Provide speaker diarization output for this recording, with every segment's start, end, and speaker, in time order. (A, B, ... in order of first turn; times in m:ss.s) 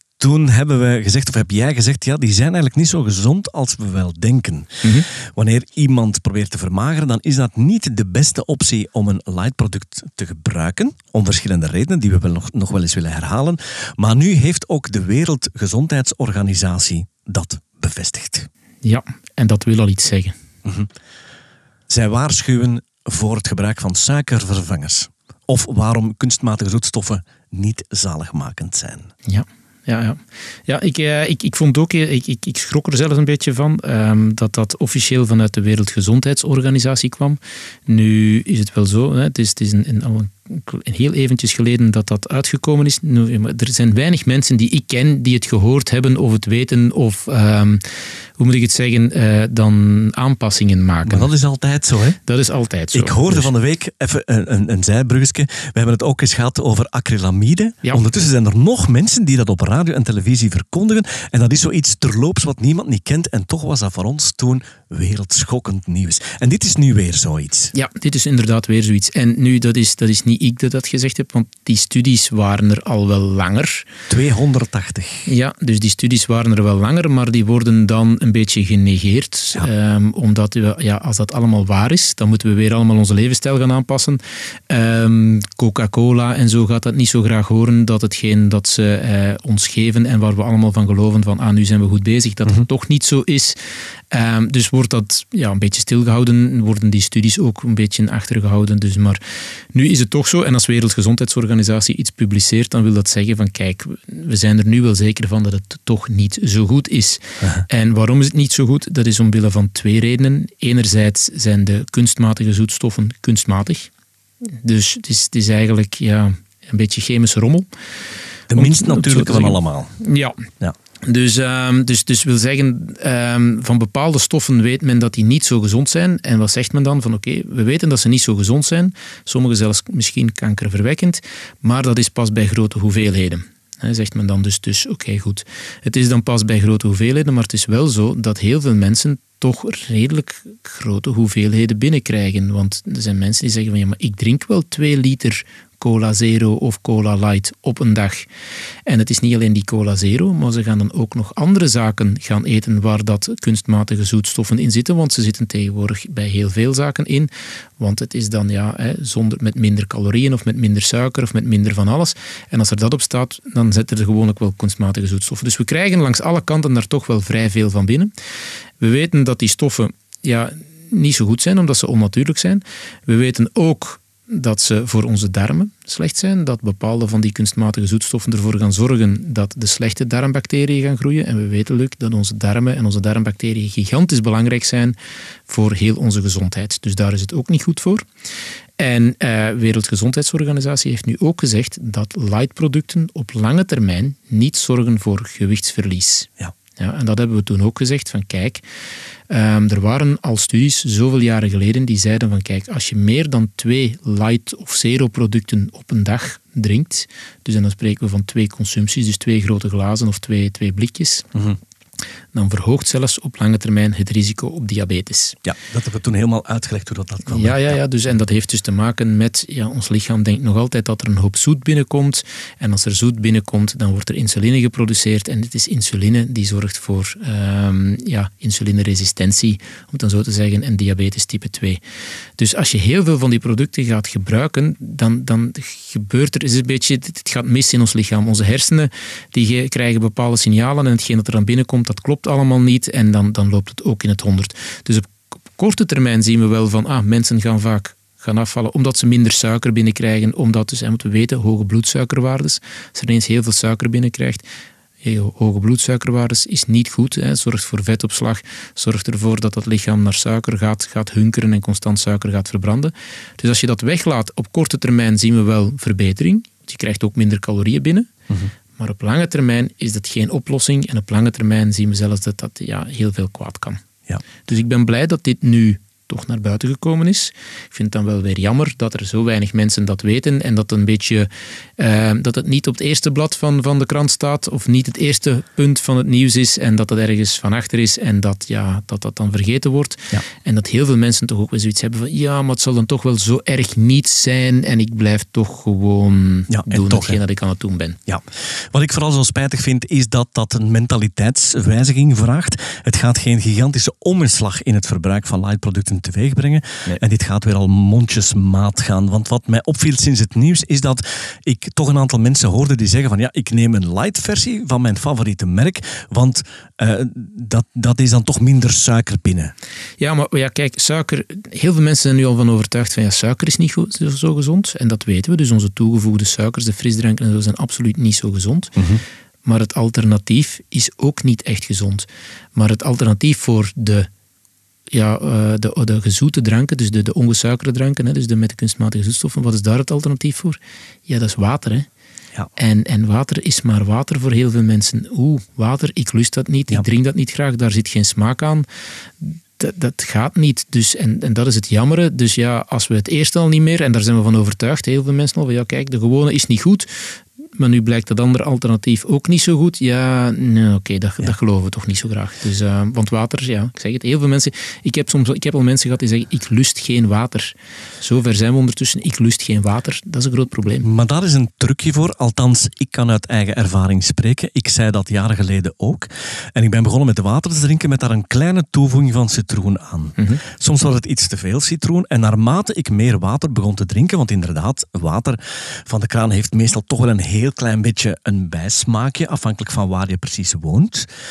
0:00.2-0:18.5 A
0:04.8-0:05.1 B
0:18.8-0:20.4 B
0:21.9-0:29.1 A
0:29.3-0:47.8 B
0:48.4-0:51.3 B
0:51.0-0:52.2 A
0:52.2-0:53.5 B
0:52.9-1:07.7 A
1:07.7-1:13.9 B
1:14.1-1:15.3 A
1:15.3-1:33.6 B
1:34.1-1:39.2 B
1:39.7-1:53.9 B
1:54.6-1:57.7 B
1:58.5-2:00.0 A
1:58.6-2:00.4 B
2:01.0-2:28.3 B
2:28.9-2:48.1 B
2:48.8-3:08.0 B
3:08.8-3:18.6 B
3:19.3-3:31.3 B
3:32.3-3:35.4 B
3:35.4-3:37.8 A
3:37.3-3:51.8 B
3:52.4-4:14.4 B
4:15.0-4:28.1 B
4:28.8-4:33.8 B
4:34.5-4:58.0 B
4:56.5-4:57.2 A
4:58.1-5:19.5 A
5:20.0-5:28.8 B
5:29.4-5:34.1 B
5:34.9-5:41.9 B
5:42.6-5:48.7 B
5:49.2-5:56.9 B
5:57.6-6:10.9 B
6:10.8-6:31.1 A